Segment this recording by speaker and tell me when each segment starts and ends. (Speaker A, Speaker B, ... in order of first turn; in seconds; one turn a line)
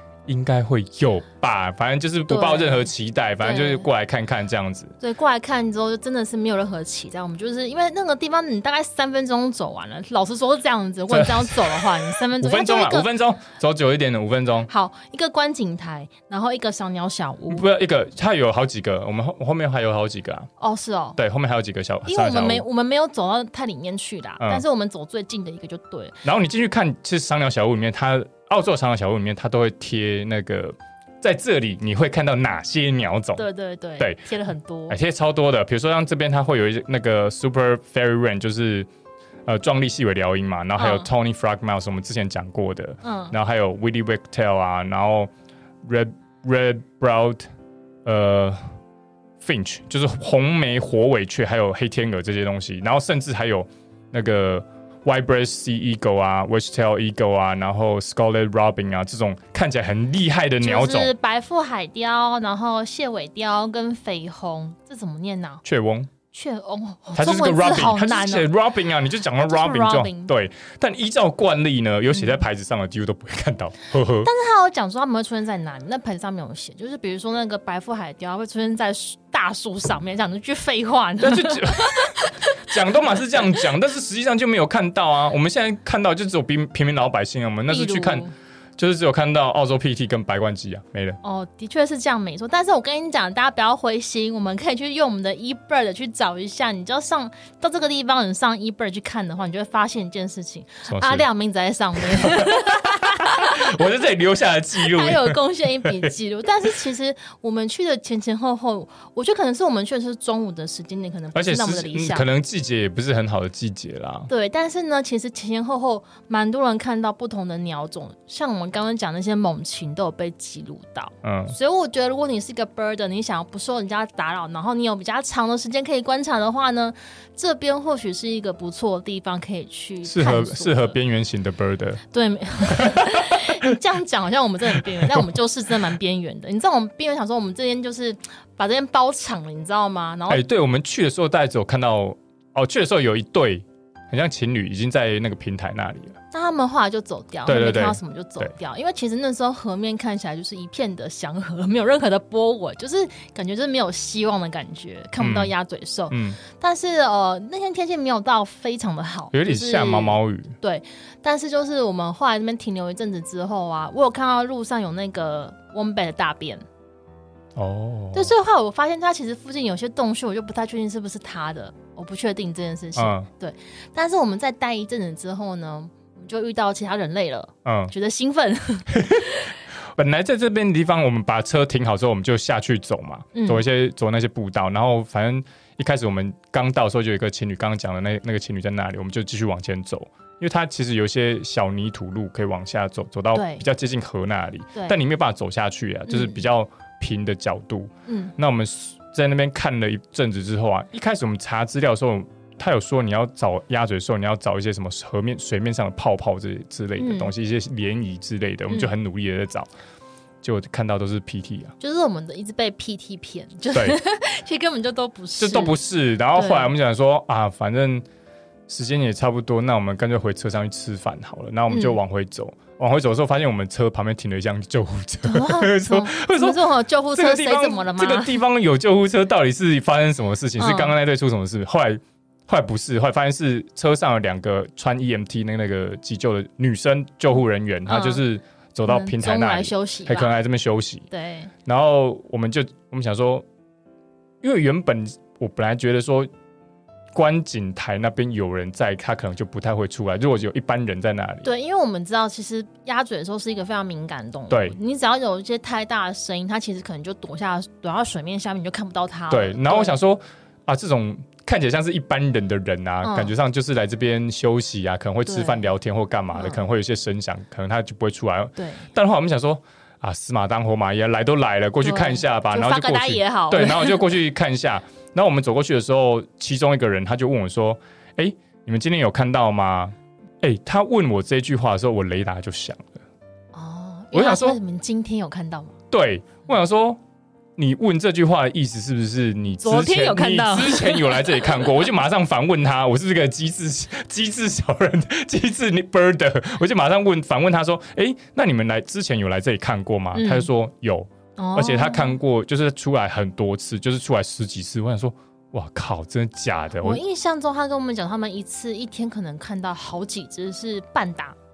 Speaker A: 0.3-4.9
Speaker B: 2.3-3.9
Speaker B: 5.0-13.1
Speaker A: 11.1-14.7
Speaker B: 14.7-17.6
Speaker A: 17.5-20.5
Speaker B: 20.6-21.2
Speaker A: 21.2-22.7
Speaker B: 22.1-26.2
Speaker A: 26.2-33.4
Speaker B: 33.4-35.0
Speaker A: 34.9-38.9
Speaker A: 39.5-45.3
Speaker B: 40.8-41.1
Speaker B: 43.0-43.4
Speaker A: 45.8-47.5
Speaker A: 48.0-48.6
Speaker A: 49.4-61.1
Speaker B: 60.6-65.6
Speaker A: 65.6-66.1
Speaker B: 66.3-68.5
Speaker A: 67.2-74.3
Speaker B: 69.4-70.3
Speaker B: 72.1-72.4
Speaker B: 74.2-82.7
Speaker A: 81.2-88.3
Speaker B: 87.7-88.3
Speaker A: 88.8-91.2
Speaker B: 91.2-103.9
Speaker A: 100.9-101.3
Speaker A: 102.0-106.1
Speaker B: 104.8-112.3
Speaker A: 111.3-114.3
Speaker B: 114.3-131.0
Speaker A: 121.2-121.5
Speaker A: 130.1-132.0
Speaker B: 132.1-140.4
Speaker A: 132.7-133.5
Speaker A: 134.8-135.3
Speaker A: 140.3-146.2
Speaker B: 146.3-166.6
Speaker A: 147.5-148.5
Speaker A: 155.2-155.5
Speaker A: 156.1-156.4
Speaker A: 159.3-160.6
Speaker A: 167.6-168.3
Speaker B: 168.1-179.5
Speaker A: 173.0-173.3
Speaker A: 177.7-177.9
Speaker A: 178.9-179.3
Speaker A: 179.9-209.7
Speaker B: 183.3-183.6
Speaker B: 193.3-193.7
Speaker B: 196.1-196.4
Speaker B: 198.1-198.3
Speaker B: 207.0-207.3
Speaker A: 210.4-211.7
Speaker B: 211.8-215.8
Speaker A: 215.4-218.1
Speaker B: 216.3-216.8
Speaker A: 218.7-226.6
Speaker B: 221.7-222.0
Speaker B: 225.2-228.4
Speaker A: 227.1-241.1
Speaker B: 230.6-230.9
Speaker B: 237.9-238.2
Speaker B: 238.9-240.4
Speaker B: 241.1-241.5
Speaker A: 241.7-243.4
Speaker A: 244.4-246.3
Speaker A: 247.1-251.5
Speaker B: 251.4-260.0
Speaker A: 254.5-254.8
Speaker A: 259.3-283.0
Speaker B: 263.0-263.3
Speaker B: 265.3-265.7
Speaker B: 266.3-266.6
Speaker B: 268.6-268.9
Speaker B: 271.8-274.0
Speaker B: 283.5-285.8
Speaker A: 284.1-284.6
Speaker A: 285.9-287.0
Speaker A: 287.6-307.0
Speaker B: 289.6-291.7
Speaker B: 300.1-300.5
Speaker B: 301.4-302.2
Speaker B: 306.8-311.4